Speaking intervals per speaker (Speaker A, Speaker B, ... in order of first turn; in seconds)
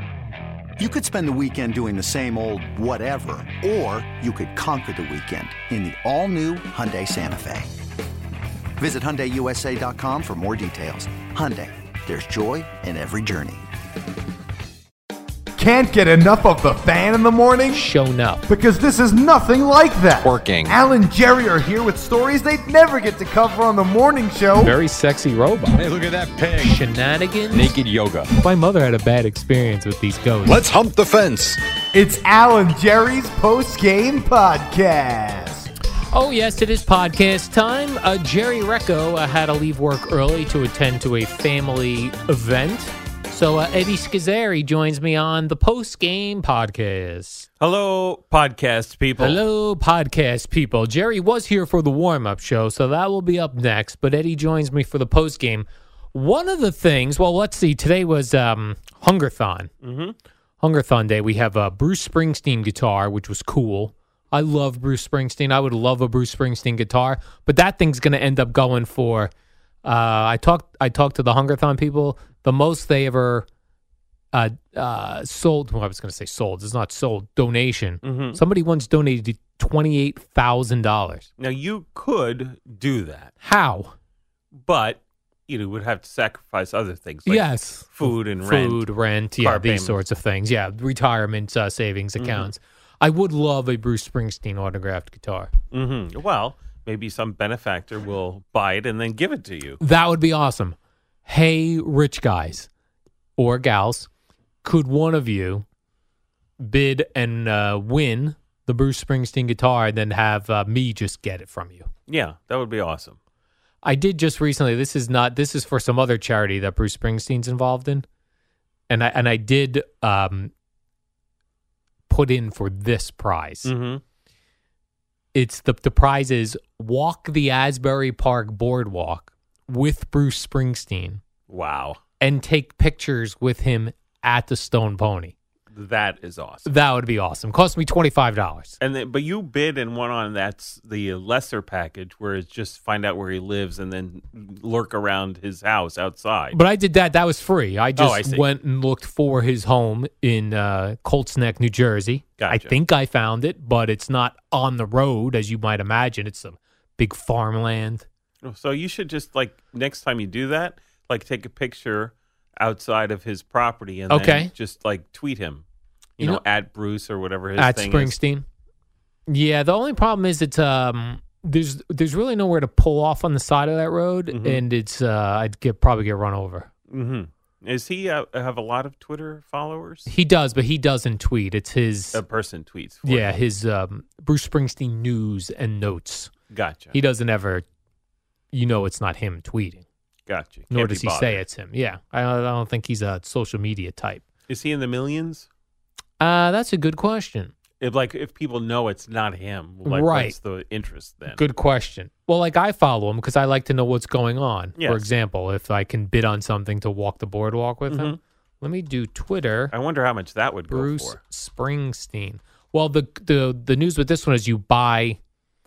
Speaker A: 0.8-7.7, 8.8-13.7
Speaker B: 15.6-17.9, 18.5-24.7, 31.9-35.7
Speaker C: 17.7-18.4, 24.6-25.8, 26.6-27.8, 28.4-30.6, 36.1-47.5, 49.2-59.7, 60.6-69.3, 69.8-73.5, 74.3-81.3, 83.4-83.9, 87.2-95.5, 99.8-100.7, 101.2-102.7, 103.4-104.1, 104.6-105.6, 106.6-111.9, 113.8-118.0, 118.9-120.5, 122.1-123.7, 125.3-131.2, 132.2-135.3, 136.6-138.7, 146.5-158.1, 164.1-164.5, 167.6-168.4, 169.3-176.7, 180.1-182.2, 183.0-186.3, 186.9-187.6, 188.5-189.8, 190.7-194.2, 196.2-197.5, 199.8-200.3, 201.3-209.7, 210.7-215.2
Speaker D: 20.2-20.8, 25.7-26.8, 27.5-28.3, 30.4-31.6
Speaker E: 47.6-49.4, 59.8-60.1, 78.0-78.4, 81.4-83.3, 84.5-88.8, 89.4-90.0, 92.2-92.5, 95.7-99.8, 112.1-113.2, 123.6-124.0, 131.5-132.0, 135.7-136.7, 138.8-146.6, 147.9-148.4, 152.4-152.7, 158.4-165.6, 166.2-168.1, 174.3-174.6, 176.9-180.1, 182.1-183.3, 186.5-186.9, 190.3-191.4, 194.5-195.5, 197.8-201.4, 204.8-205.0, 207.9-208.2, 209.7-211.2